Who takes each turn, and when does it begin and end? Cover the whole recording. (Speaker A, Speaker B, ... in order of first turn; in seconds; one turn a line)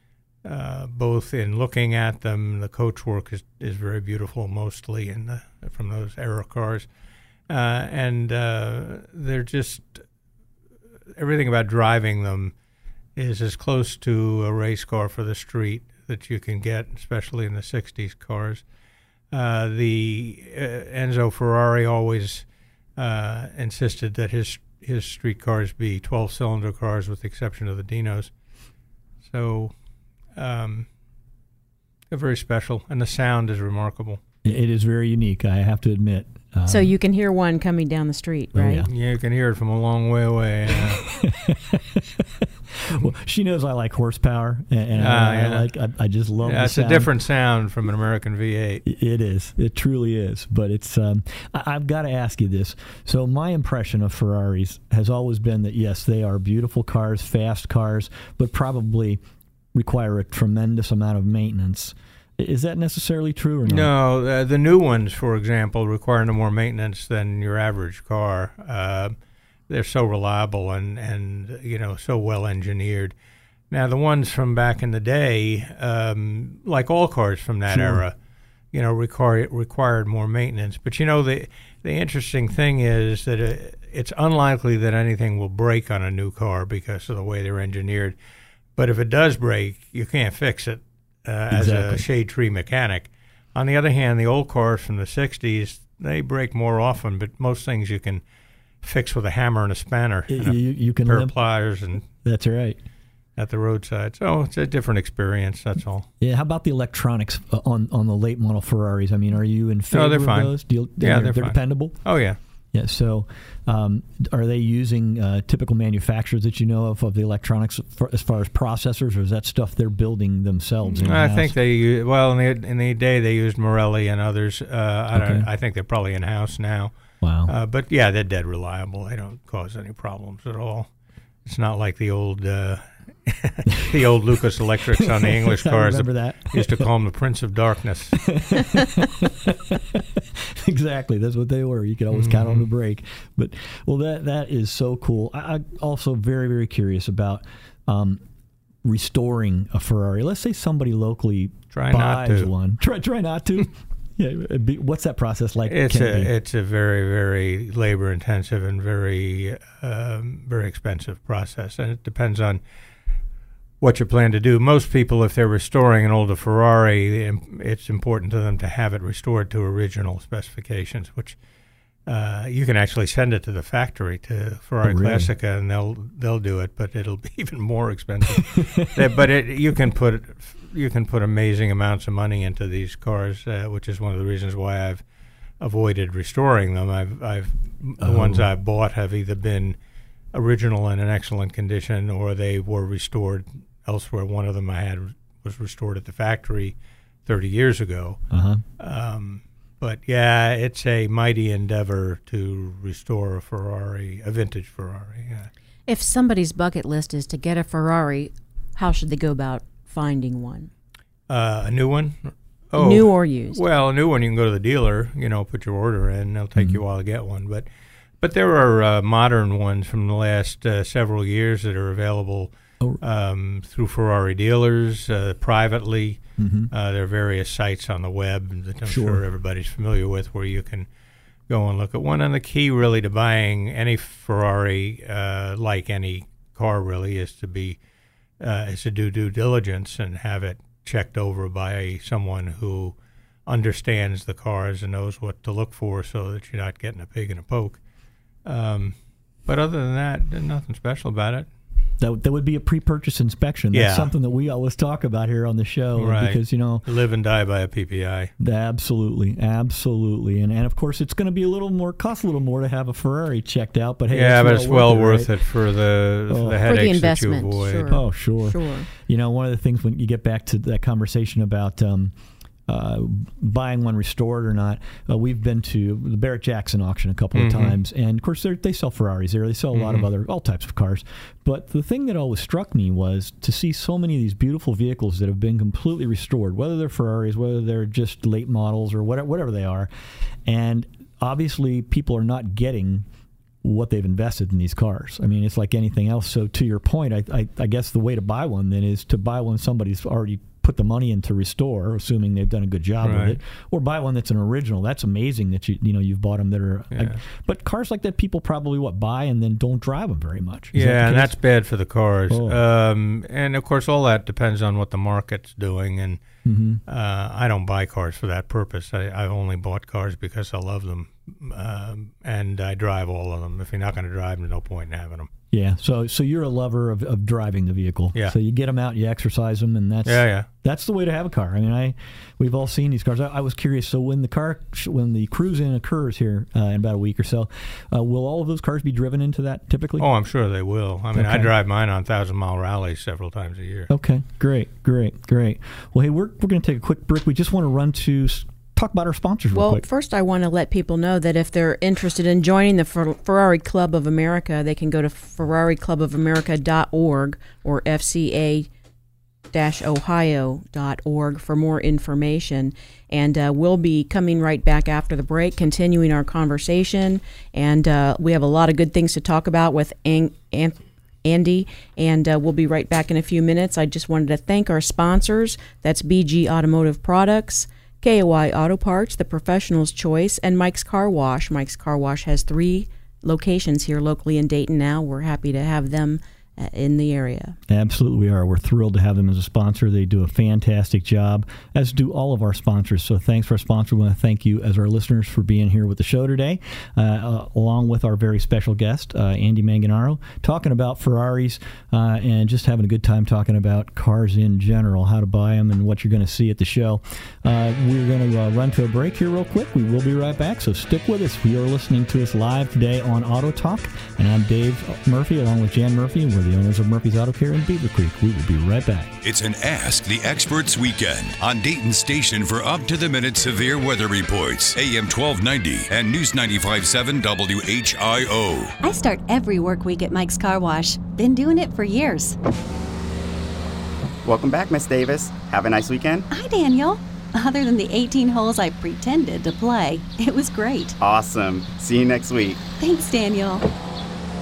Speaker A: 0.4-6.9
Speaker A: 7.5-10.1
Speaker A: 11.2-12.5
Speaker A: 13.2-18.6
Speaker A: 19.3-22.5
Speaker A: 23.0-28.3
Speaker A: 29.2-29.7
Speaker A: 30.4-30.9
Speaker A: 32.1-34.2
Speaker B: 34.4-36.9
Speaker C: 36.7-38.9
Speaker B: 38.5-38.9
Speaker A: 38.9-41.1
Speaker B: 40.8-47.1
Speaker A: 45.0-45.7
Speaker A: 46.4-48.8
Speaker B: 48.9-59.2
Speaker B: 59.7-63.9
Speaker A: 63.7-69.2
Speaker A: 69.7-73.1
Speaker A: 73.7-78.2
Speaker B: 77.7-78.0
Speaker A: 78.7-88.2
Speaker A: 88.8-98.2
Speaker B: 91.5-92.0
Speaker A: 98.8-102.1
Speaker B: 100.3-101.3
Speaker B: 102.2-102.8
Speaker A: 103.4-106.1
Speaker B: 106.2-112.0
Speaker A: 109.9-112.4
Speaker B: 112.7-121.6
Speaker A: 120.9-126.9
Speaker B: 125.1-125.5
Speaker B: 127.2-127.5
Speaker A: 127.5-130.9
Speaker A: 131.4-138.2
Speaker B: 135.0-136.9
Speaker B: 138.3-148.2
Speaker A: 142.1-142.7
Speaker B: 148.8-156.3
Speaker A: 151.7-152.5
Speaker A: 155.7-162.6
Speaker A: 163.8-171.4
Speaker A: 172.1-185.0
Speaker B: 174.8-175.3
Speaker B: 178.3-179.0
Speaker A: 185.6-189.8
Speaker B: 188.0-188.5
Speaker A: 190.3-198.2
Speaker B: 198.3-198.6
Speaker A: 198.8-205.5
Speaker C: 205.9-210.7
Speaker A: 211.3-217.7
Speaker C: 212.8-213.6
Speaker A: 218.2-230.9
Speaker B: 226.4-226.7
Speaker B: 228.8-229.2
Speaker A: 231.5-237.8
Speaker A: 238.4-242.9
Speaker A: 243.5-247.8
Speaker A: 248.4-251.5
Speaker B: 252.0-256.8
Speaker A: 253.7-254.1
Speaker A: 256.0-258.3
Speaker B: 258.4-265.3
Speaker A: 264.1-267.9
Speaker B: 266.3-266.7
Speaker C: 266.7-268.9
Speaker B: 267.9-272.1
Speaker B: 272.7-289.9
Speaker A: 277.3-277.8
Speaker A: 279.7-280.1
Speaker B: 290.4-293.1
Speaker B: 293.6-311.3
Speaker A: 303.0-303.4
Speaker A: 306.9-307.2
Speaker A: 310.7-316.2
Speaker B: 312.3-312.6
Speaker B: 316.4-316.8
Speaker A: 316.9-325.3
Speaker B: 325.5-340.1
Speaker A: 330.1-330.4
Speaker A: 340.0-343.9
Speaker B: 341.1-341.5
Speaker B: 343.9-349.8
Speaker C: 349.5-358.7
Speaker C: 359.5-387.6
Speaker B: 387.7-419.1
Speaker D: 419.2-428.8
Speaker E: 428.8-432.4
Speaker F: 434.2-436.2
Speaker E: 436.3-441.0
Speaker F: 441.0-442.6
Speaker E: 442.7-443.7